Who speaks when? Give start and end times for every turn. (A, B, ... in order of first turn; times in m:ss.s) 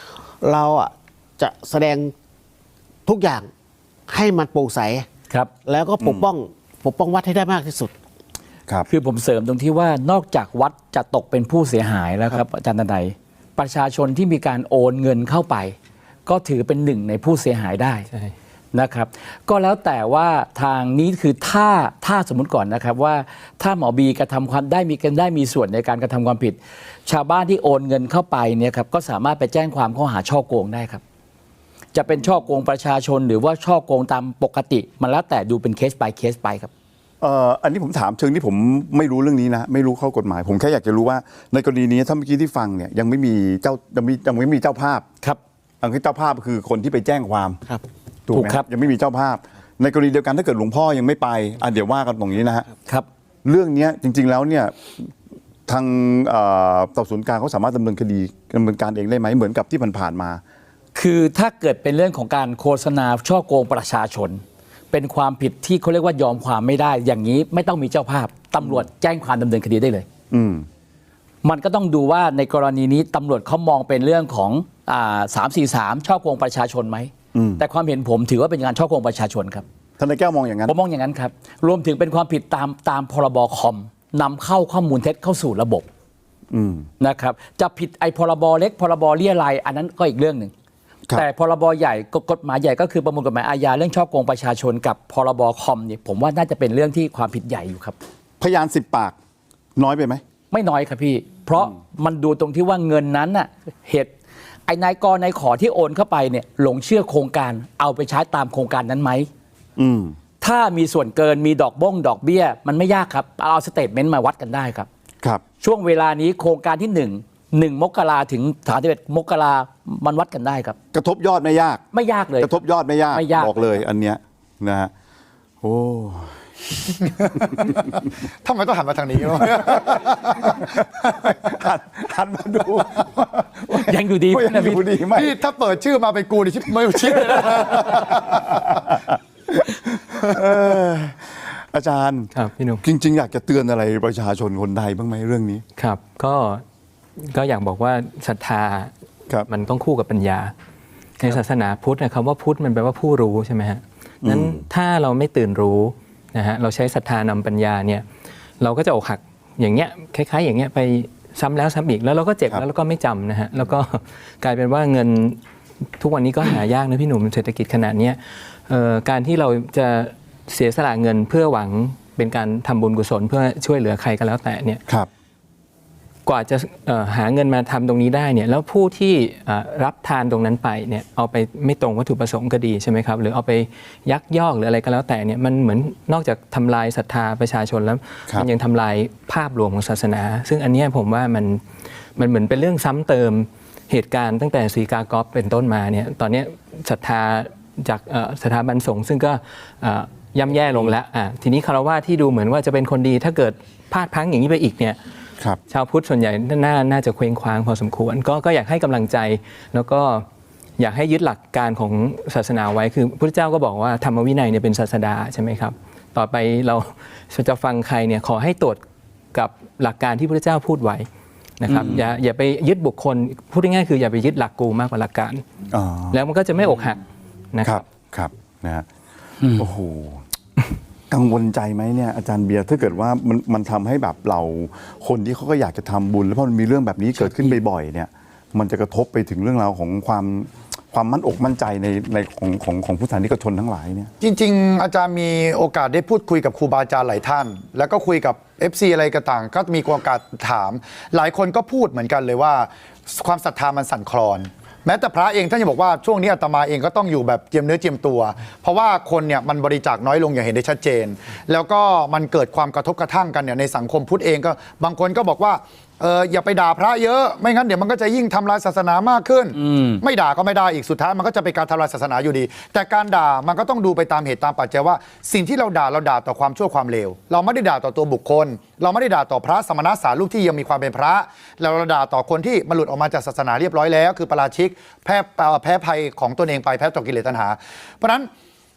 0:00.4-0:02.1 A
0:03.0-0:03.5 A
0:04.1-0:05.1 A
0:05.6-0:07.9 A
0:08.9-0:18.1 B
0:18.7-0:31.0 B
0:31.9-0:36.7 B
0:37.2-0:45.0 C
0:45.8-0:47.6 C
0:48.3-0:52.7 C
0:48.3-0:48.7 B
0:53.4-0:55.1 C
0:55.7-1:00.4 C
1:00.9-1:10.1 B
1:10.3-1:10.7 C
1:11.4-1:19.6 B
1:17.3-1:17.6 C
1:20.0-1:20.7 C
1:20.6-1:25.8 B
1:26.5-1:26.9 C
1:27.0-1:30.5 B
1:31.1-1:38.0 B
1:38.4-1:39.2 C
1:39.8-1:40.2 C
1:40.5-1:44.1 B
1:44.7-1:49.3 B
1:49.8-1:50.2 C
1:50.4-1:54.9 B
1:55.6-2:00.8 B
2:00.9-2:01.8 C
2:01.9-2:03.8 B
2:02.4-2:04.9 C
2:05.6-2:06.4 C
2:07.4-2:07.8 D
2:08.4-2:11.3 D
2:09.6-2:09.9 C
2:11.2-2:13.8 C
2:13.7-2:15.1 B
2:14.3-2:15.3 C
2:15.1-2:18.8 D
2:17.2-2:18.6 C
2:19.5-2:22.3 C
2:22.3-2:22.8 E
2:22.8-2:25.6 C
2:25.8-2:26.6 E
2:27.2-2:28.9 E
2:29.5-2:30.5 E
2:31.2-2:38.0 E
2:34.2-2:34.6 C
2:38.6-2:45.4 E
2:46.0-2:54.8 E
2:56.2-3:11.6 E
3:12.2-3:25.0 E
3:25.7-3:30.2 E
3:30.8-3:38.8 E
3:39.3-3:41.0 E
3:41.6-3:45.4 E
3:41.7-3:41.9 B
3:45.7-3:46.2 C
3:46.1-3:47.0 E
3:47.5-3:47.8 E
3:47.6-3:48.8 C
3:49.4-3:49.7 B
3:49.6-3:50.2 C
3:51.1-4:04.1 C
3:57.2-3:57.6 B
4:04.2-4:48.3 D
4:29.7-4:30.0 B